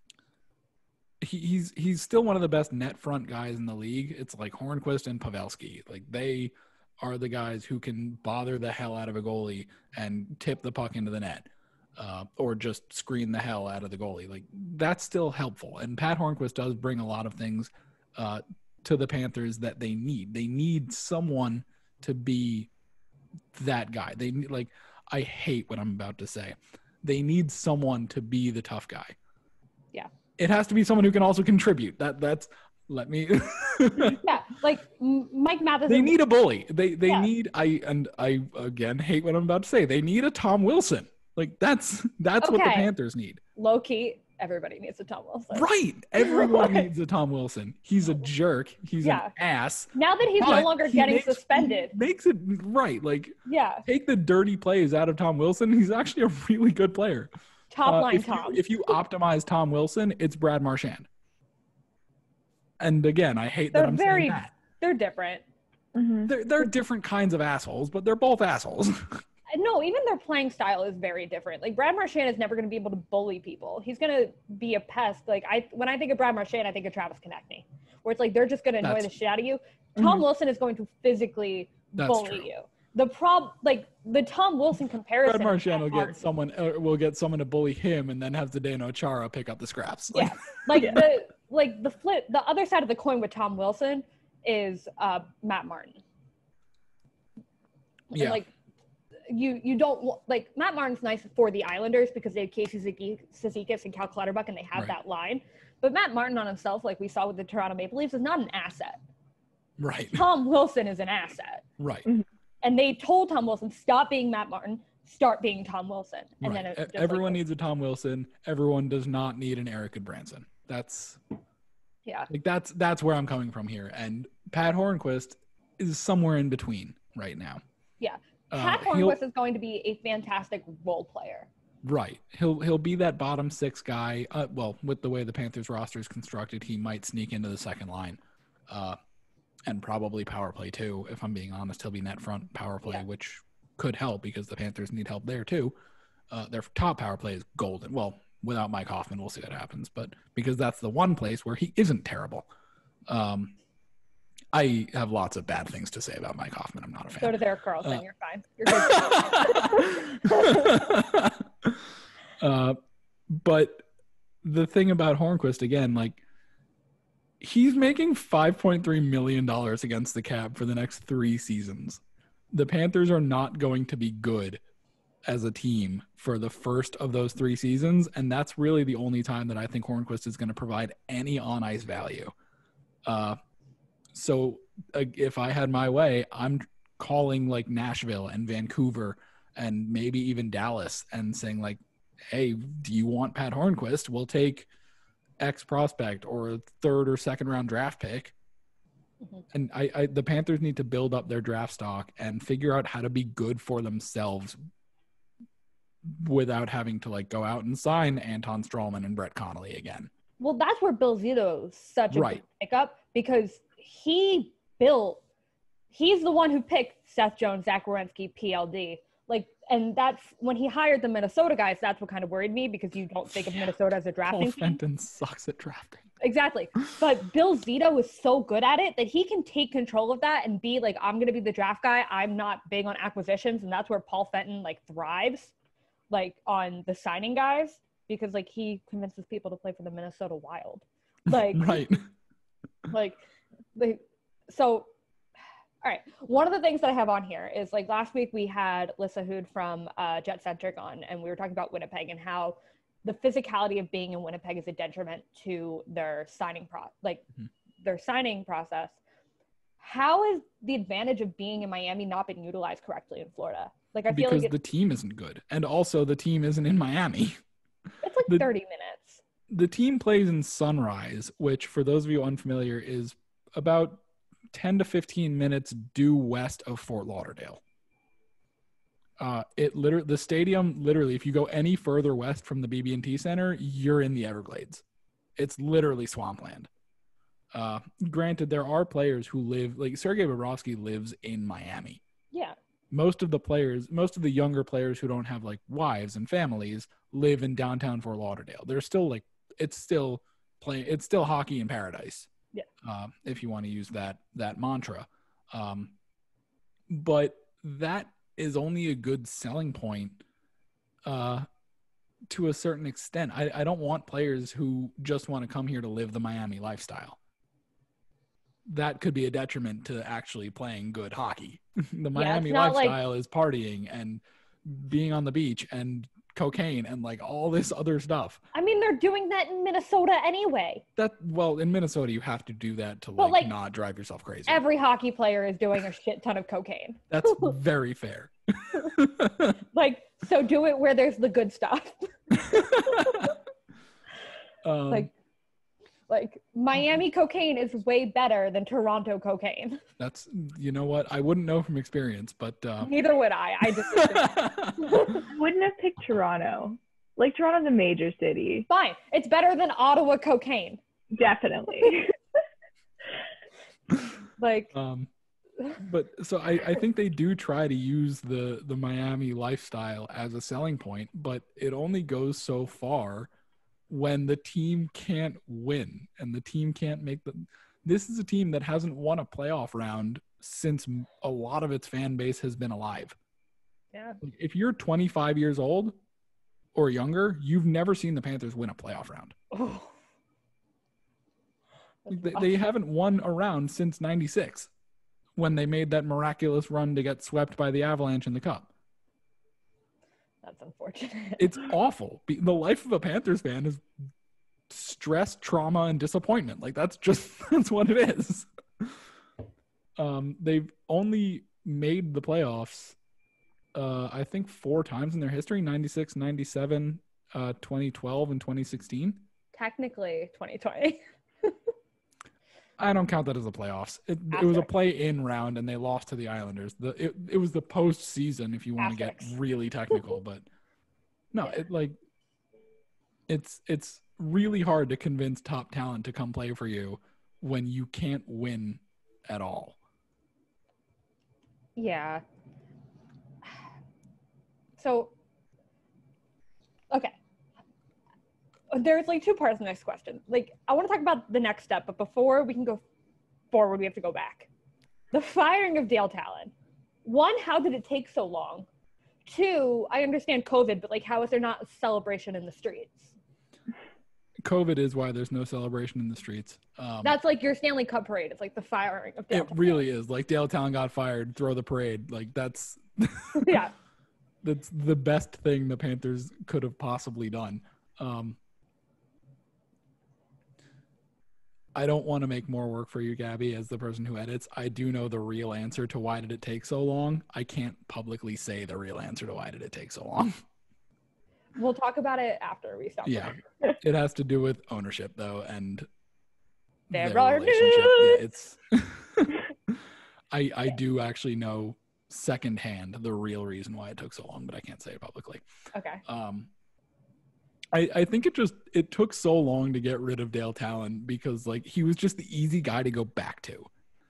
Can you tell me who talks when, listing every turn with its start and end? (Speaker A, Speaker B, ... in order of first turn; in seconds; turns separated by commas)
Speaker A: 1.2-22.7, Speaker A: 23.5-29.2, Speaker A: 30.4-34.2, Speaker B: 34.2-36.2, Speaker A: 35.9-43.4, Speaker B: 42.4-42.9, Speaker B: 43.6-45.7, Speaker A: 45.5-57.3, Speaker B: 46.2-46.9, Speaker B: 49.0-49.3, Speaker B: 49.9-51.9, Speaker B: 53.5-53.8, Speaker B: 57.7-58.6, Speaker A: 57.9-61.1, Speaker A: 62.8-64.5, Speaker B: 63.7-65.4, Speaker C: 66.0-66.3, Speaker A: 66.2-69.2, Speaker B: 69.5-86.2, Speaker A: 78.8-79.1, Speaker A: 82.0-82.5, Speaker A: 85.2-91.1, Speaker B: 90.1-96.0, Speaker B: 98.1-98.5, Speaker A: 98.1-98.4, Speaker B: 99.3-109.0, Speaker A: 109.8-110.2, Speaker B: 110.1-111.6, Speaker A: 111.8-112.1, Speaker B: 112.6-117.4, Speaker A: 116.4-121.2, Speaker A: 122.3-127.6, Speaker B: 128.0-131.5, Speaker A: 128.5-129.2, Speaker A: 131.8-139.0, Speaker A: 139.7-145.7, Speaker A: 146.3-152.5, Speaker A: 153.1-153.6, Speaker A: 154.5-158.0, Speaker B: 157.1-160.8, Speaker A: 158.7-161.9, Speaker A: 162.4-162.8, Speaker A: 163.3-163.9, Speaker A: 164.4-166.2, Speaker A: 167.4-172.0, Speaker A: 172.5-174.6, Speaker A: 175.3-182.3, Speaker A: 183.1-183.4, Speaker A: 184.1-194.7, Speaker A: 195.4-198.3, Speaker A: 199.5-204.6, Speaker A: 206.1-210.1, Speaker B: 210.4-215.2, Speaker A: 212.1-212.4, Speaker B: 215.9-224.8, Speaker A: 224.3-226.1, Speaker B: 226.2-235.5, Speaker B: 236.1-241.8, Speaker A: 241.3-242.1, Speaker B: 242.9-243.2, Speaker B: 243.8-244.9, Speaker B: 245.8-257.2, Speaker B: 257.8-259.0, Speaker B: 259.8-264.5, Speaker A: 264.1-267.4, Speaker B: 268.0-269.2, Speaker A: 269.5-277.6, Speaker A: 279.2-284.8, Speaker A: 285.4-286.7, Speaker A: 287.5-292.0, Speaker A: 292.9-302.3, Speaker A: 302.8-305.9, Speaker A: 306.9-310.2, Speaker A: 311.1-311.5, Speaker A: 312.3-317.2, Speaker A: 318.7-328.4, Speaker B: 322.1-323.0, Speaker B: 328.5-330.8, Speaker A: 331.0-334.6, Speaker B: 333.2-333.5, Speaker B: 334.5-337.5, Speaker A: 337.1-339.6, Speaker B: 339.7-343.3, Speaker A: 342.4-343.4, Speaker A: 344.6-345.1, Speaker B: 346.1-349.8, Speaker A: 350.0-352.9, Speaker B: 352.8-355.2, Speaker A: 353.6-355.1, Speaker C: 355.1-358.7, Speaker B: 358.7-360.8, Speaker C: 361.1-362.1, Speaker B: 364.4-364.7, Speaker A: 364.7-365.1, Speaker A: 365.8-373.3, Speaker A: 373.9-383.2, Speaker B: 383.9-384.2, Speaker A: 384.2-386.0, Speaker A: 386.7-389.4, Speaker B: 389.5-389.9, Speaker B: 392.1-392.6, Speaker A: 392.1-394.7, Speaker A: 395.4-398.7, Speaker B: 400.4-401.7, Speaker A: 401.4-403.9, Speaker A: 404.7-409.0, Speaker A: 410.0-413.0, Speaker A: 413.7-419.2, Speaker B: 419.5-421.6, Speaker A: 422.8-430.4, Speaker B: 424.3-424.7, Speaker B: 428.8-429.3, Speaker A: 431.3-432.0, Speaker A: 433.3-439.8, Speaker B: 441.8-442.2, Speaker B: 444.8-445.1, Speaker B: 446.9-447.2, Speaker B: 448.7-452.8, Speaker B: 453.5-454.5, Speaker B: 455.1-456.5, Speaker B: 457.1-458.7, Speaker B: 459.3-463.1, Speaker A: 464.4-467.1, Speaker B: 467.0-469.8, Speaker A: 469.3-473.6, Speaker B: 473.4-473.7, Speaker A: 474.4-478.4, Speaker A: 481.7-490.4, Speaker B: 491.6-493.4, Speaker A: 493.1-495.9, Speaker A: 496.9-505.4, Speaker B: 496.9-498.2, Speaker B: 505.7-506.0, Speaker A: 506.1-506.5, Speaker A: 507.7-513.7